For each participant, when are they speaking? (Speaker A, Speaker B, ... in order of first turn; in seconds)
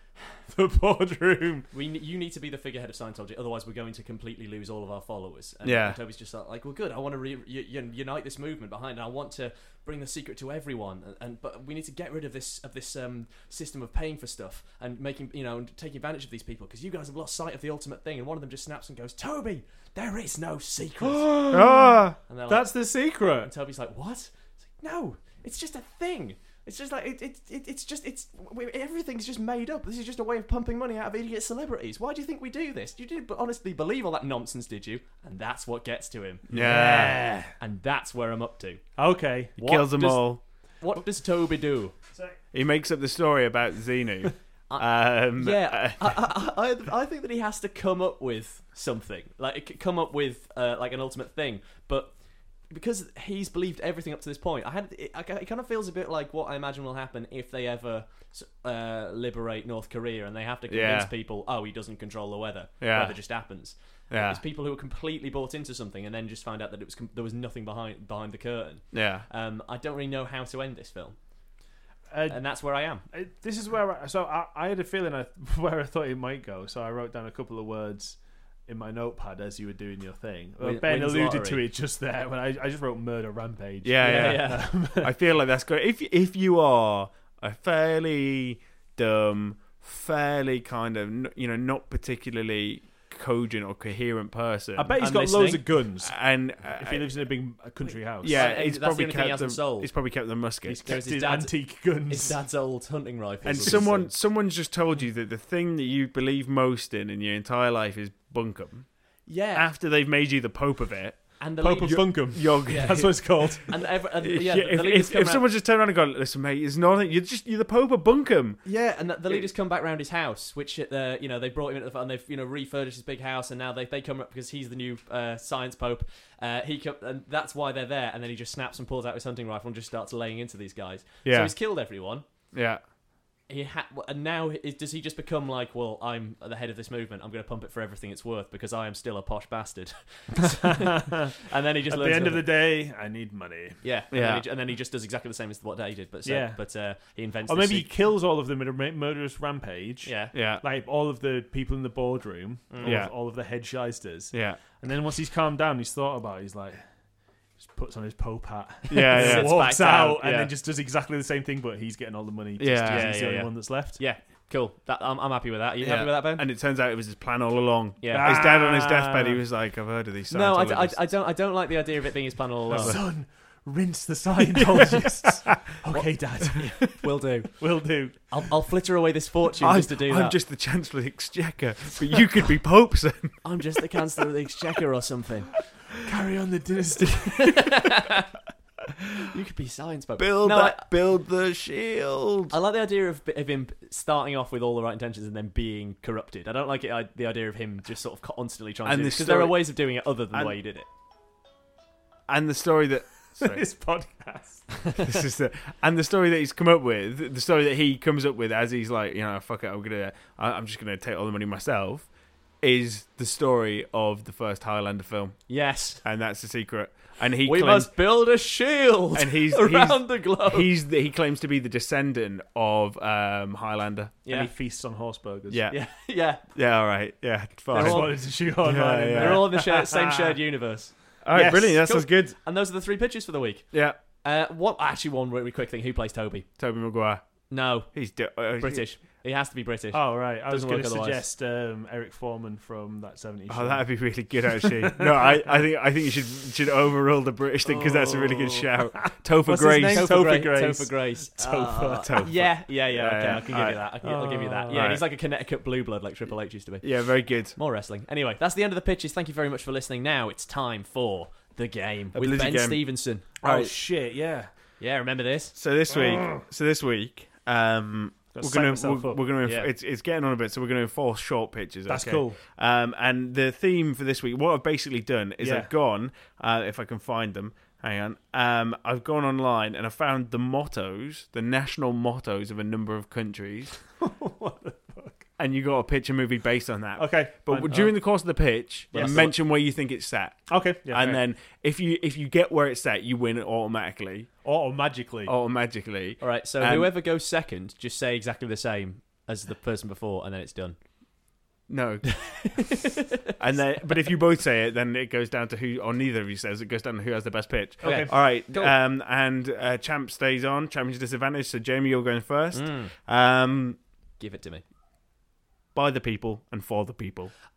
Speaker A: 0.5-1.7, 21.0-23.5, 36.5-37.5, 39.0-39.6, 72.1-72.4, 73.1-85.1, 94.8-98.4, 100.8-102.4, 111.6-113.8, 140.6-141.3, 141.9-143.8, 146.2-146.6, 147.5-156.8, 157.6-164.0, 168.1-169.4, 172.7-177.0, 177.6-178.5, 185.9-187.8, 203.4-204.8, 224.3-225.6, 227.7-230.3, 231.3-232.0, 239.9-245.5, 248.5-252.2, 254.0-254.9, 263.4-264.5, 265.9-266.4, 268.3-269.2, 271.9-272.4, 275.4-275.7, 284.0-285.2, 286.9-287.9, 290.5-291.2, 294.4-295.3, 307.8-308.1
Speaker B: 1.7-21.6, 22.3-22.7, 23.4-36.9, 37.6-38.8, 39.6-41.9, 44.7-52.1, 52.7-71.2, 72.3-73.0, 80.6-81.6, 84.0-84.7, 95.0-95.6, 98.3-99.9, 100.6-104.1, 109.2-109.7, 111.4-115.4, 118.6-132.2, 133.5-142.5, 143.8-147.9, 150.0-150.3, 152.7-153.0, 158.9-160.3, 162.8-163.3, 164.0-166.4, 168.0-168.4, 170.3-173.0, 175.9-180.4, 183.4-185.5, 187.3-188.3, 189.2-190.9, 192.5-200.8, 215.5-216.0, 217.4-220.7, 224.2-224.5, 225.7-226.4, 227.7-228.1, 229.1-230.9, 231.8-236.5, 237.5-237.9, 238.6-241.2, 247.7-248.6, 249.5-263.4, 264.8-265.6, 269.4-269.7, 288.9-289.3, 296.2-300.8, 302.2-303.0, 307.8-308.7, 312.5-312.9, 314.2-314.6
Speaker C: 5.6-6.0, 21.5-22.1, 36.5-37.2, 39.6-40.4, 42.5-46.1, 60.7-61.1, 62.8-63.1, 64.1-64.4, 68.9-69.2, 83.8-95.0, 96.0-97.1, 98.2-100.8, 103.4-108.9, 109.5-113.2, 114.2-118.6, 131.2-131.5, 132.5-132.8, 144.1-144.4, 150.3-150.6, 152.8-153.1, 154.3-154.6, 158.9-160.5, 162.6-163.5, 165.8-171.1, 172.7-173.0, 179.6-183.4, 190.2-192.5, 198.8-199.6, 202.3-203.6, 205.0-212.1, 212.6-215.5, 216.0-217.9, 219.1-224.2, 225.5-225.8, 226.4-229.5, 231.2-232.3, 233.7-234.0, 236.6-237.2, 237.9-238.8, 243.5-250.1, 252.0-253.8, 254.7-255.0, 256.8-257.6, 262.1-263.7, 265.6-283.8, 285.4-294.3, 295.2-296.9, 301.7-302.8, 303.4-313.8, 315.7-317.3